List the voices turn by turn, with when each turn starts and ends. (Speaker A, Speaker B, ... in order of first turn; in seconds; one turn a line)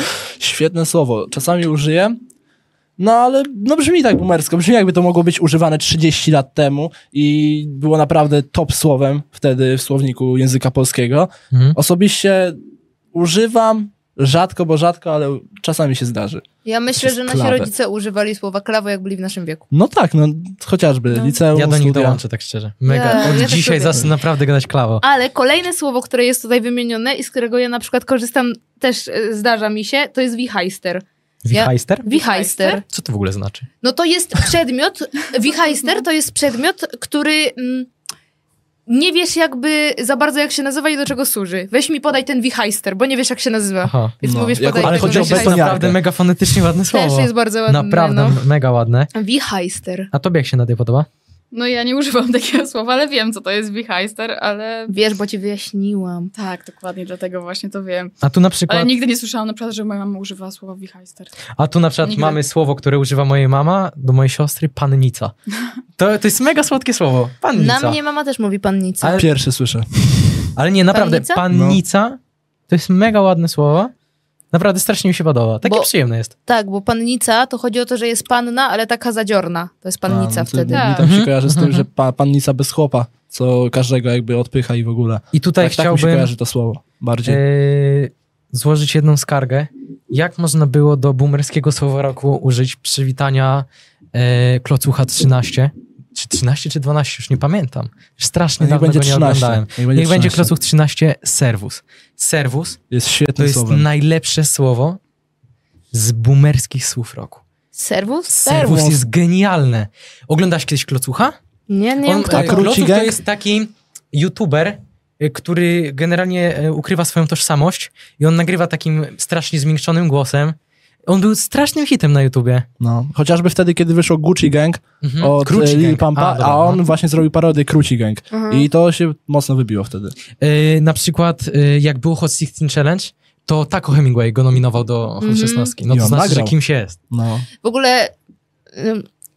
Speaker A: 0.4-2.2
Speaker A: 3.0-12.6
Speaker B: 11.5-11.8
Speaker A: 13.1-16.4
Speaker C: 16.6-19.6
Speaker A: 17.0-17.7
Speaker A: 19.7-22.2
Speaker B: 21.5-25.0
Speaker C: 22.9-24.0
Speaker A: 23.2-24.1
Speaker C: 25.0-32.8
Speaker B: 31.4-32.1
Speaker D: 32.1-32.8
Speaker B: 32.8-33.7
Speaker C: 33.8-37.9
Speaker C: 38.9-45.8
Speaker B: 43.8-44.1
Speaker A: 44.2-46.0
Speaker B: 44.8-49.1
Speaker C: 46.9-48.4
Speaker C: 49.1-50.1
Speaker B: 50.1-51.1
Speaker D: 51.5-54.9
Speaker C: 54.9-56.3
Speaker D: 56.4-58.1
Speaker B: 58.2-58.9
Speaker D: 58.7-61.3
Speaker B: 61.6-65.3
Speaker D: 62.0-62.4
Speaker B: 66.0-68.0
Speaker C: 67.6-69.2
Speaker B: 69.0-69.3
Speaker A: 69.2-70.4
Speaker B: 70.6-72.2
Speaker C: 70.9-71.4
Speaker A: 71.5-71.8
Speaker B: 72.7-73.9
Speaker B: 74.5-76.3
Speaker C: 75.6-75.9
Speaker C: 76.5-81.0
Speaker A: 80.1-87.4
Speaker D: 80.7-81.1
Speaker B: 81.0-81.9
Speaker B: 85.3-86.3
Speaker B: 87.2-102.8
Speaker A: 98.6-100.5
Speaker A: 102.9-103.8
Speaker B: 103.4-105.0
Speaker B: 105.9-107.4
Speaker C: 107.7-108.7
Speaker B: 108.3-111.4
Speaker A: 108.5-109.0
Speaker C: 111.7-112.7
Speaker B: 112.0-122.7
Speaker A: 112.3-113.2
Speaker A: 122.8-130.2
Speaker B: 125.0-126.8
Speaker C: 128.3-128.7
Speaker B: 130.4-137.0
Speaker C: 135.2-135.8
Speaker A: 135.9-136.6
Speaker A: 137.1-137.5
Speaker C: 137.6-138.1
Speaker C: 138.7-139.1